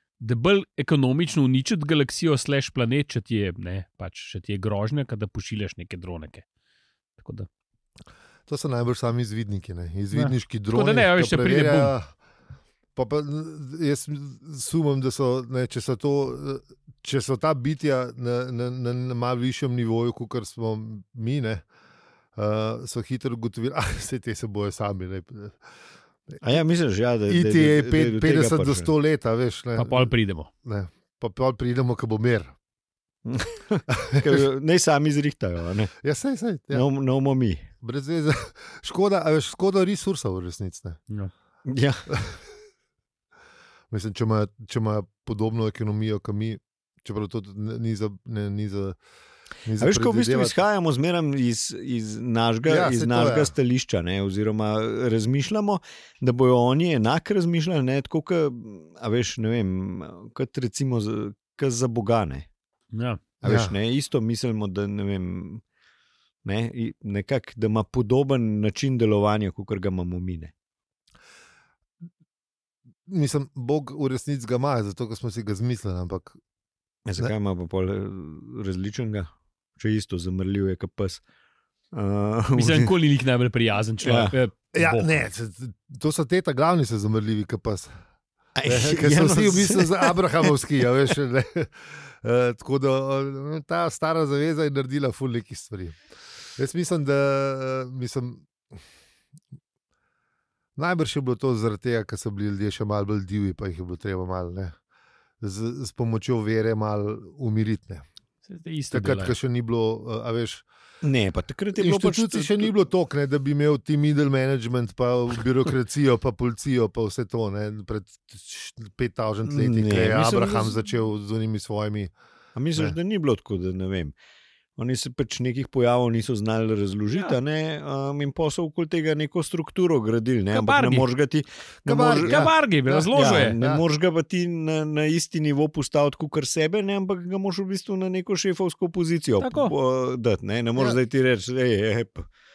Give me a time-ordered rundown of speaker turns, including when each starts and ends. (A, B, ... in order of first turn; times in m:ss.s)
0:00.2-0:06.4 A
0:07.2-0:07.5 A
0:08.5-0:12.1 B
0:10.1-0:11.9 A
0:13.0-0:21.6 B
0:22.4-0:25.6 B
0:26.4-0:28.9 C
0:27.3-0:30.1 B
0:29.7-0:30.5 A
0:30.6-0:32.5 B
0:33.2-0:35.9 C
0:34.0-0:34.4 B
0:36.0-0:36.8 B
0:36.7-0:37.6 C
0:37.8-0:41.0 B
0:41.6-0:42.0 C
0:42.1-0:42.4 B
0:43.9-0:49.0 B
0:49.6-0:50.6 B
0:49.8-1:02.4 C
0:52.6-0:53.5 B
1:02.9-1:03.2 A
1:03.4-1:05.6 C
1:03.4-1:03.7 B
1:06.4-1:10.5 C
1:13.1-1:16.4 B
1:17.0-1:21.2 C
1:21.9-1:22.9 C
1:22.5-1:25.1 A
1:24.0-1:24.3 C
1:24.7-1:27.9 B
1:28.6-1:30.4 C
1:28.6-1:36.0 B
1:36.6-1:38.5 B
1:40.8-1:44.7 B
1:45.4-1:48.0 B
1:48.4-1:49.3 A
1:48.9-1:50.6 B
1:51.0-1:52.7 C
1:51.8-2:02.1 B
1:59.4-2:00.8 C
2:02.5-2:04.1 C
2:04.8-2:12.5 C
2:10.5-2:11.0 A
2:11.8-2:13.8 B
2:12.2-2:13.6 A
2:13.1-2:22.2 C
2:19.4-2:19.7 A